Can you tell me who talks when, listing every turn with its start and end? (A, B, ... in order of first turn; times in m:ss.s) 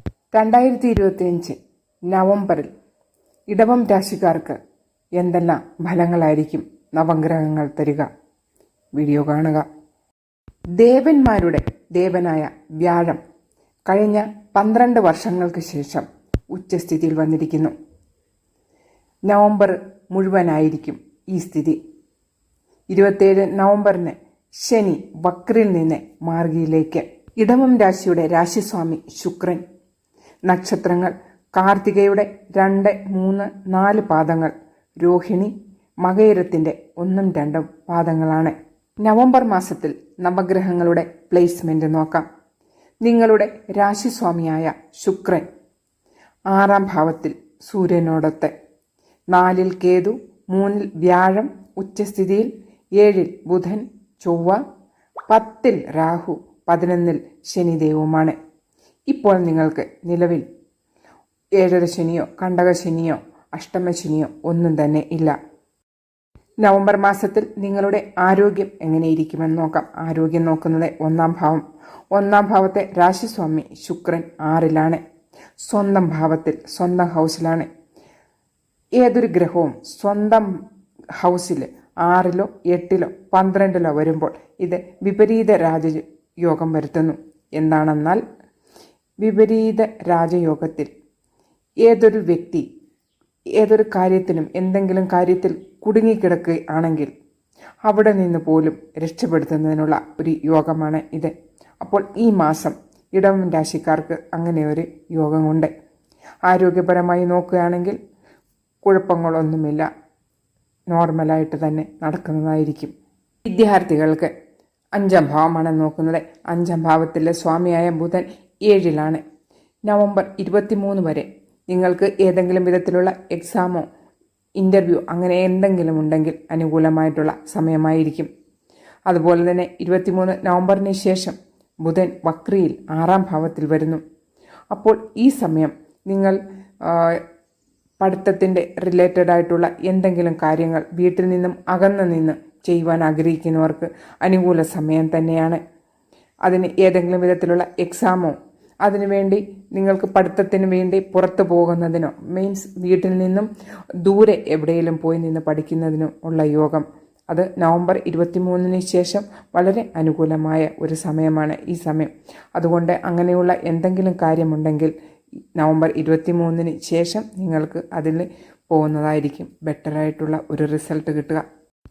0:00.3-0:01.6 A
0:02.1-0:02.7 A
0:03.5-0:04.6 A
0:05.2-0:08.1 A
0:09.0-0:09.7 A
0:10.8-0:13.2 A
0:13.9-0:17.7 A
0:19.3-0:21.8 A
0:22.9-0:29.6 A
0:30.5-0:42.3 A
0:43.0-0:45.4 A
0:46.5-0:48.5 A
0:49.3-0:54.6 A
0:55.3-0:58.4 A
0:59.1-1:00.4 A
1:01.6-1:05.4 A
1:06.6-1:15.0 A
1:15.6-1:17.7 A
1:19.0-1:20.5 A
1:21.2-1:28.2 A
1:29.2-1:30.9 A
1:31.8-1:32.6 A
1:33.6-1:37.1 A
1:37.8-1:45.7 A
1:46.5-1:48.0 A
1:48.8-1:49.9 A
1:50.9-1:52.9 A
1:53.4-1:54.3 A
1:55.0-1:59.2 A
1:59.9-2:03.9 A
2:04.6-2:08.3 A
2:09.1-2:14.0 A
2:14.7-2:17.2 A
2:18.0-2:25.6 A
2:26.5-2:33.5 A
2:34.0-2:44.9 A
2:45.6-2:51.4 A